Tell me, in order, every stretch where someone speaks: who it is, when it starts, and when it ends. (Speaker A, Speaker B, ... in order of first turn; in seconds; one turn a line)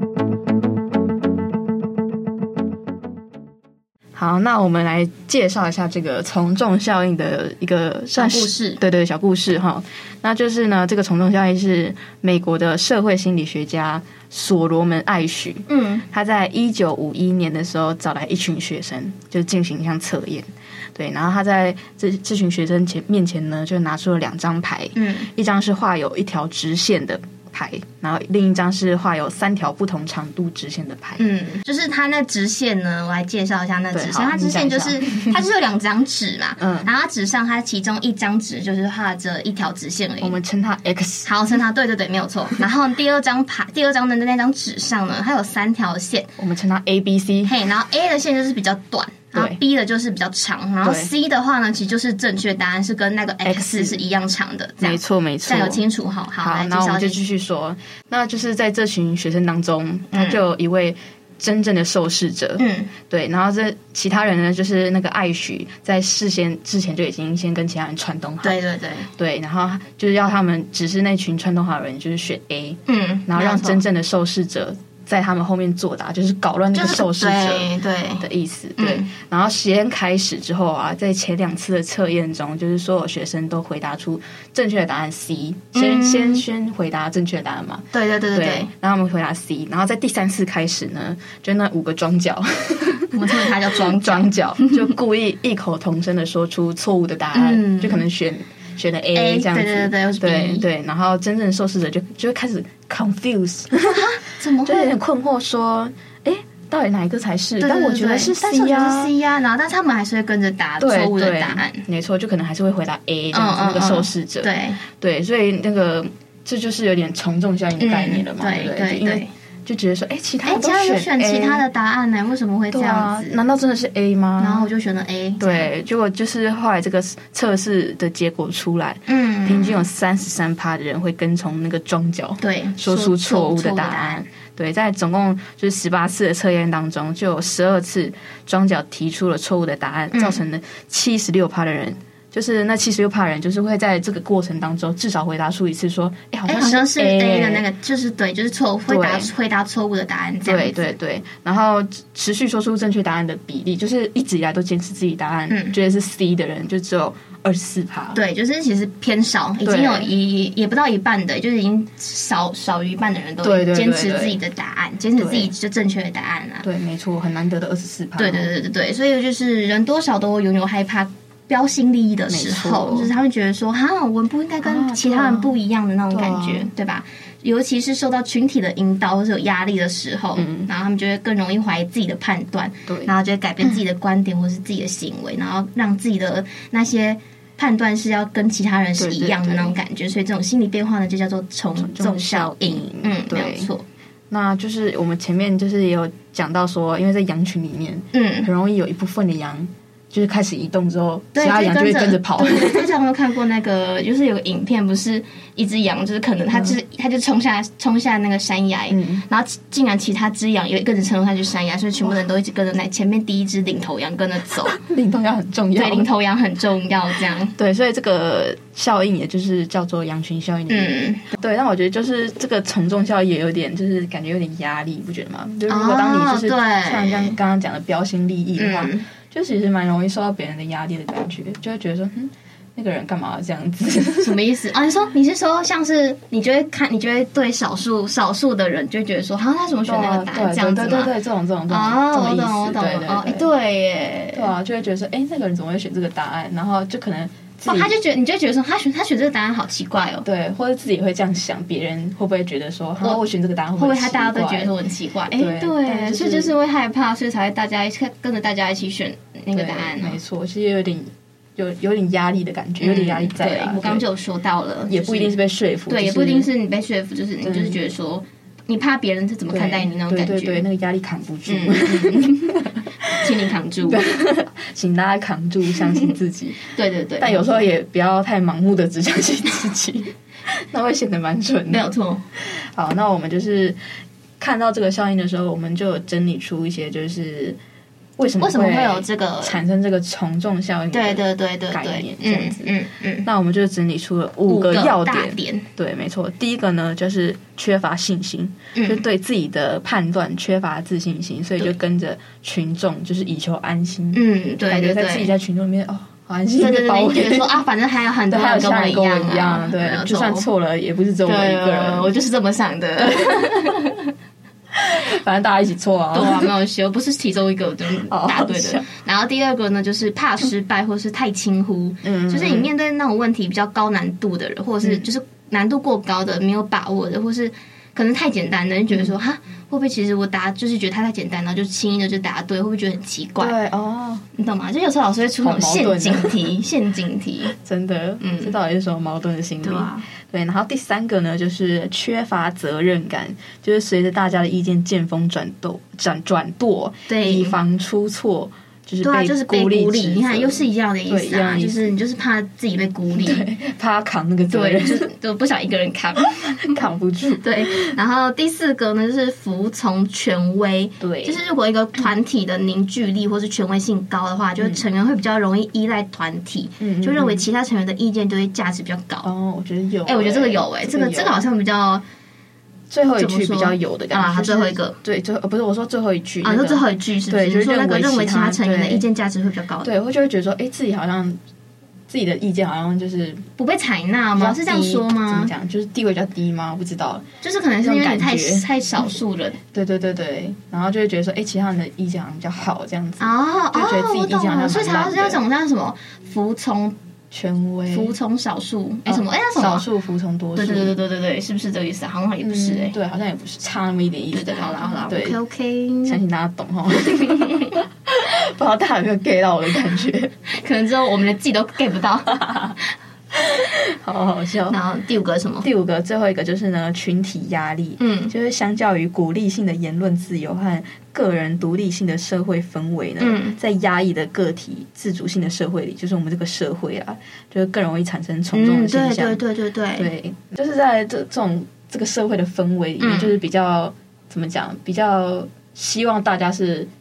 Speaker A: 4.1-31.3
Speaker B: 8.1-8.8
Speaker B: 15.7-16.1
Speaker B: 24.9-25.3
Speaker B: 31.2-40.4
Speaker A: 33.9-35.4
Speaker A: 36.6-36.9
Speaker A: 40.2-41.3
Speaker B: 41.2-46.3
Speaker A: 46.4-47.5
Speaker B: 47.4-57.2
Speaker A: 50.8-51.1
Speaker A: 53.4-54.0
Speaker A: 54.8-55.8
Speaker A: 56.4-68.6
Speaker B: 60.1-60.4
Speaker B: 62.6-62.9
Speaker B: 68.4-69.1
Speaker A: 69.2-109.1
Speaker B: 72.9-73.8
Speaker B: 76.7-78.2
Speaker B: 78.8-79.1
Speaker B: 85.7-86.4
Speaker B: 87.9-88.7
Speaker B: 93.1-94.8
Speaker B: 97.3-98.0
Speaker B: 99.1-100.6
Speaker B: 103.8-105.0
Speaker B: 107.6-111.8
Speaker A: 110.8-121.6
Speaker B: 113.3-114.8
Speaker B: 117.8-119.3
Speaker B: 120.4-123.4
Speaker A: 122.7-124.7
Speaker B: 124.4-125.7
Speaker A: 125.4-147.7
Speaker B: 129.1-129.8
Speaker B: 132.4-134.2
Speaker B: 140.1-140.4
Speaker B: 146.5-150.8
Speaker A: 148.9-149.3
Speaker A: 150.4-158.2
Speaker B: 155.5-155.8
Speaker B: 158.1-166.7
Speaker A: 159.6-160.1
Speaker A: 163.4-164.4
Speaker A: 165.2-165.5
Speaker A: 166.6-168.5
Speaker B: 168.2-193.8
Speaker A: 172.3-173.1
Speaker A: 174.6-175.6
Speaker A: 176.1-176.7
Speaker A: 180.3-180.7
Speaker A: 182.9-183.8
Speaker A: 189.0-189.8
Speaker A: 191.8-193.7
Speaker A: 194.3-202.9
Speaker B: 198.1-198.5
Speaker B: 201.3-214.8
Speaker A: 208.9-209.2
Speaker A: 214.6-216.1
Speaker B: 215.8-217.5
Speaker A: 217.6-234.4
Speaker B: 220.7-221.2
Speaker B: 225.7-227.4
Speaker B: 228.6-229.1
Speaker B: 234.2-241.1
Speaker A: 239.8-243.5
Speaker B: 241.7-244.5
Speaker A: 244.3-247.9
Speaker B: 247.6-250.2
Speaker A: 250.2-254.7
Speaker B: 253.8-260.2
Speaker A: 255.3-256.5
Speaker A: 259.5-264.0
Speaker B: 262.8-265.4
Speaker A: 264.9-266.5
Speaker B: 265.9-270.6
Speaker A: 267.4-267.8
Speaker A: 269.5-273.3
Speaker B: 271.4-272.5
Speaker B: 273.1-274.0
Speaker A: 273.8-276.7
Speaker B: 276.7-277.7
Speaker A: 277.2-283.8
Speaker B: 281.7-282.2
Speaker A: 284.4-287.6
Speaker A: 288.2-292.7
Speaker B: 288.4-289.6
Speaker B: 290.9-293.3
Speaker A: 293.2-307.5
Speaker B: 294.5-295.7
Speaker B: 298.7-299.0
Speaker B: 304.1-305.3
Speaker B: 306.6-310.5
Speaker A: 308.3-312.1
Speaker B: 311.2-314.1
Speaker A: 313.0-313.8
Speaker A: 314.7-316.5
Speaker B: 316.1-333.5
Speaker A: 318.1-318.9
Speaker A: 322.0-322.7
Speaker A: 333.4-334.2
Speaker B: 334.3-337.5
Speaker A: 335.4-336.4
Speaker A: 337.5-352.0
Speaker B: 338.2-338.5
Speaker B: 339.6-340.1
Speaker B: 347.1-347.6
Speaker B: 349.0-353.4
Speaker A: 353.1-355.1
Speaker B: 354.5-356.8
Speaker A: 356.4-357.9
Speaker B: 357.4-369.3
Speaker A: 361.0-361.4
Speaker A: 366.8-367.4
Speaker A: 369.2-371.4
Speaker B: 370.0-372.0
Speaker A: 372.9-379.0
Speaker B: 373.1-374.9
Speaker B: 376.4-379.9
Speaker A: 379.8-381.4
Speaker A: 382.1-383.4
Speaker B: 383.6-385.5
Speaker A: 384.4-387.3
Speaker B: 387.4-389.6
Speaker A: 387.8-388.6
Speaker A: 389.7-395.4
Speaker B: 393.2-396.9
Speaker A: 397.3-398.1
Speaker B: 397.9-399.9
Speaker A: 399.1-401.0
Speaker B: 400.6-402.9
Speaker A: 402.4-405.4
Speaker B: 404.3-406.2
Speaker A: 406.0-410.4
Speaker B: 407.2-407.8
Speaker B: 410.5-412.6
Speaker A: 412.3-412.8
Speaker A: 413.3-414.8
Speaker B: 414.7-415.7
Speaker A: 415.6-429.4
Speaker B: 418.0-418.3
Speaker B: 423.2-423.6
Speaker B: 428.5-430.1
Speaker A: 429.9-436.9
Speaker B: 433.0-433.4